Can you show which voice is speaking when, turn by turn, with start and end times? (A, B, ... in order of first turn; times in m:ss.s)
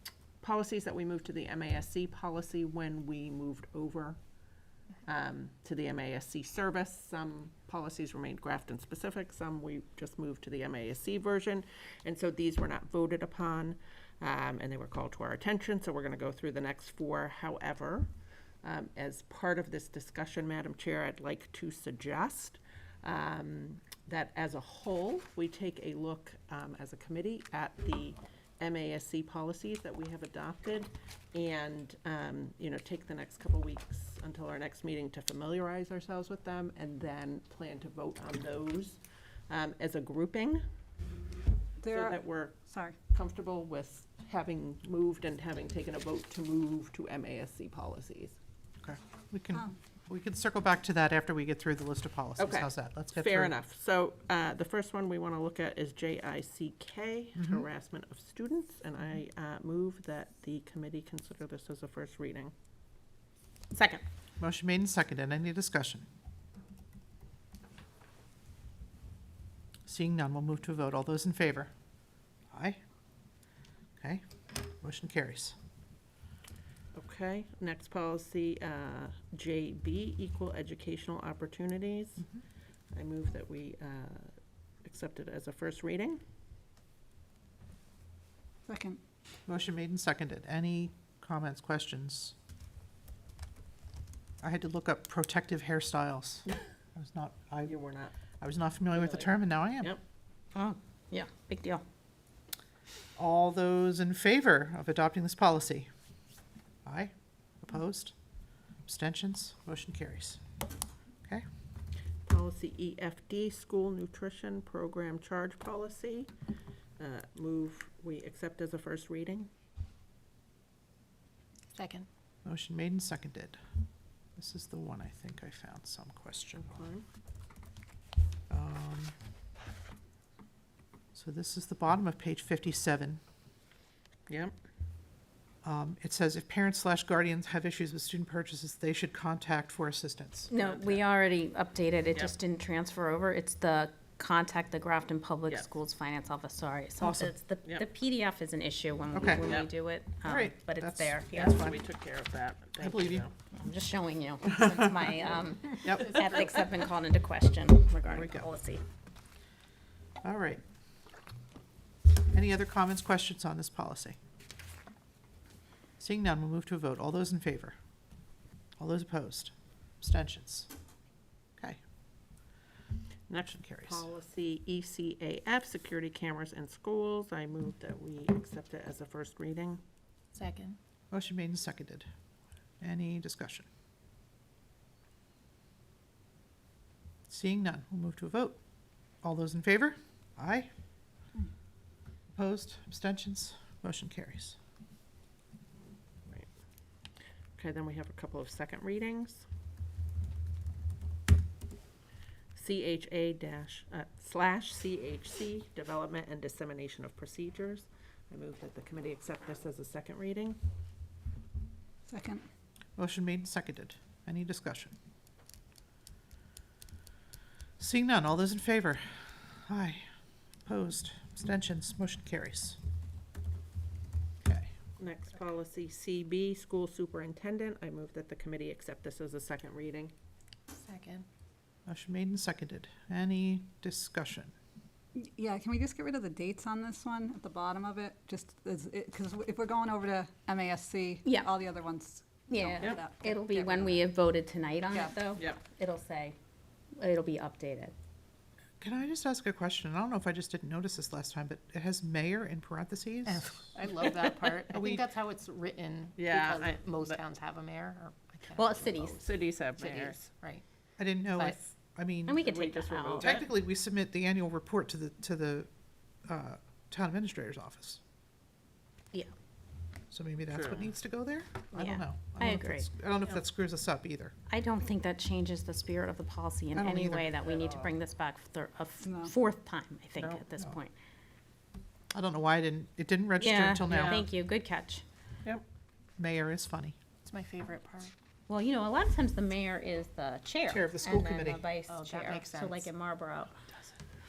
0:00.4-0:04.2 A
0:05.0-0:18.1 A
0:18.6-0:40.6 A
0:41.8-0:43.0 B
0:41.9-0:48.4 A
0:48.8-0:53.5 C
0:52.4-1:02.5 A
0:57.4-0:57.6 C
1:03.7-1:04.0 D
1:04.4-1:06.1 C
1:09.8-1:11.7 C
1:12.5-1:12.8 C
1:14.0-1:14.2 C
1:14.8-1:15.6 C
1:16.9-1:22.3 A
1:22.9-1:26.2 A
1:28.7-1:29.0 B
1:29.4-1:32.3 C
1:34.4-1:37.8 C
1:37.6-1:38.1 A
1:38.4-1:39.9 C
1:38.9-1:40.0 A
1:40.5-1:41.8 D
1:43.2-1:45.9 C
1:46.8-1:48.1 C
1:48.8-1:50.4 C
1:52.2-1:56.3 A
1:57.0-1:59.5 A
2:01.7-2:02.1 E
2:02.4-2:03.6 C
2:04.4-2:06.9 C
2:06.5-2:07.0 A
2:08.5-2:09.1 C
2:11.1-2:13.2 C
2:14.3-2:14.5 A
2:15.6-2:20.5 C
2:20.5-2:31.7 D
2:20.5-2:21.0 A
2:27.0-2:27.3 C
2:29.1-2:29.6 C
2:29.4-2:29.7 A
2:30.2-2:31.8 C
2:31.3-2:33.3 A
2:32.8-2:33.3 C
2:33.5-2:38.8 D
2:34.6-2:34.9 C
2:35.8-2:36.2 C
2:38.0-2:38.5 C
2:40.2-2:40.6 C
2:42.3-2:44.2 C
2:46.0-2:47.8 C
2:48.8-2:50.7 C
2:53.3-2:59.8 A
2:53.4-2:54.0 C
3:00.3-3:00.8 E
3:01.1-3:02.1 C
3:02.8-3:03.7 C
3:07.3-3:08.6 C
3:09.2-3:10.7 C
3:12.3-3:14.6 C
3:16.2-3:16.5 A
3:17.6-3:19.4 A
3:22.5-3:30.6 A
3:32.1-3:32.4 B
3:33.0-3:35.0 C
3:37.8-3:40.0 C
3:40.6-3:42.8 C
3:44.4-3:44.7 C
3:45.0-3:50.1 A
3:50.7-3:51.2 E
3:51.8-3:54.5 C
3:55.2-4:04.1 B
4:01.2-4:01.5 D
4:02.5-4:06.4 D
4:04.9-4:05.2 B
4:05.4-4:05.6 A
4:07.0-4:07.9 D
4:08.8-4:13.6 C
4:13.3-4:20.6 E
4:14.0-4:14.7 A
4:14.7-4:15.1 C
4:16.2-4:17.2 A
4:18.5-4:19.4 D
4:19.2-4:20.2 A
4:21.0-4:22.6 C
4:22.2-4:23.4 D
4:22.4-4:23.4 A
4:23.1-4:25.7 C
4:26.2-4:28.0 C
4:30.1-4:34.3 C
4:30.5-4:30.9 A
4:31.8-4:32.9 D
4:34.5-4:40.9 D
4:36.7-4:37.3 C
4:37.5-4:37.9 A
4:39.0-4:39.3 B
4:40.2-4:40.4 A
4:42.1-4:44.2 C
4:43.4-4:45.0 D
4:43.9-4:44.2 A
4:46.2-4:47.0 C
4:47.2-4:48.1 E
4:48.5-4:53.5 D
4:50.7-4:51.6 C
4:51.9-4:52.9 E